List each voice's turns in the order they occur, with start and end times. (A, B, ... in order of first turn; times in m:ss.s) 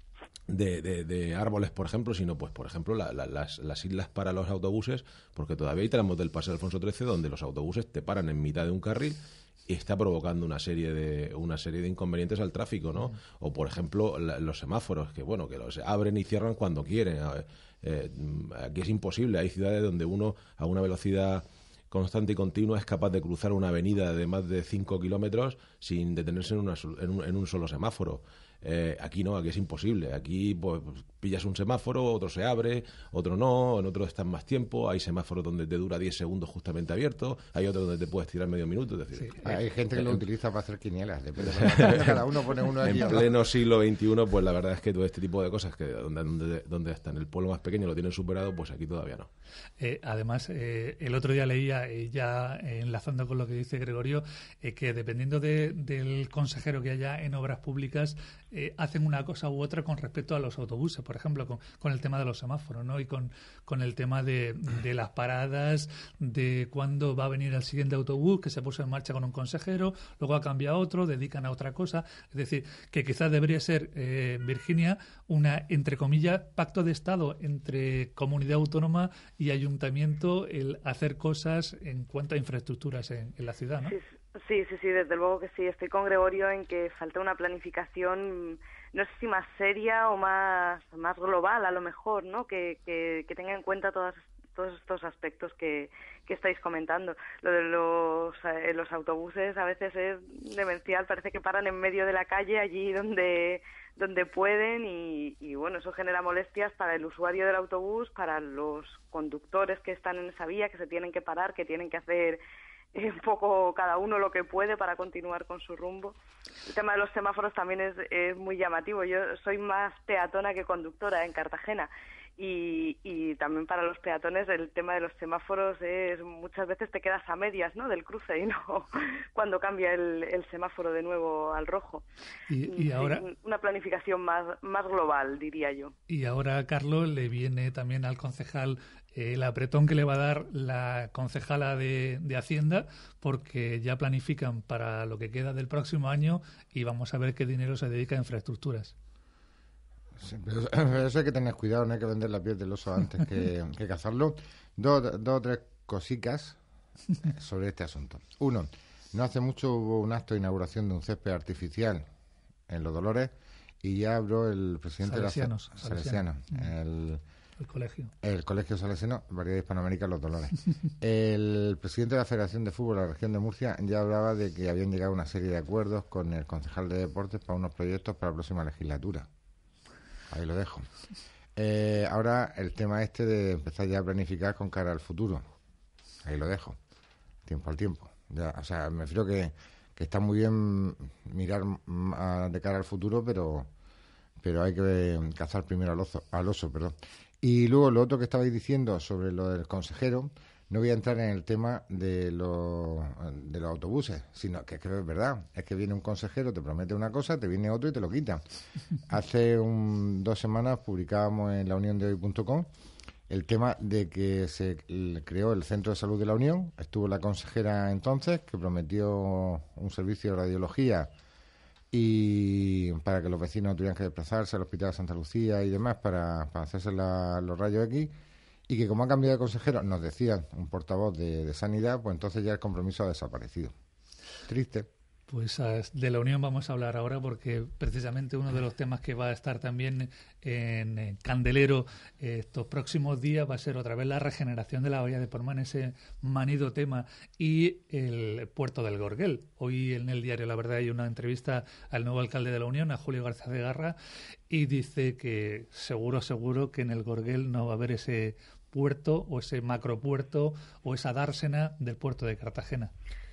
0:00.5-0:40.2 A
0:39.4-0:43.3 B
0:41.4-0:42.1 A
0:42.8-0:49.3 A
0:49.8-1:24.0 C
1:23.9-1:52.4 D
1:52.9-1:56.2 D
1:56.7-2:12.0 D
2:12.5-2:13.3 C
2:12.6-2:15.9 D
2:16.1-2:29.0 C
2:30.2-2:36.6 B
2:37.2-2:42.0 B
2:42.7-2:43.3 B
2:43.8-2:47.2 B
2:45.0-2:46.3 C
2:47.6-2:48.1 C
2:48.2-2:59.3 B
3:00.3-3:00.9 B
3:01.6-3:05.4 B
3:06.2-3:06.8 B
3:07.5-3:13.7 B
3:14.4-3:28.4 B
3:29.1-3:32.7 B
3:33.3-3:41.1 B
3:41.9-3:48.1 B
3:48.7-3:53.7 B
3:54.5-3:54.9 B
3:55.3-4:14.0 C
4:14.5-4:22.9 C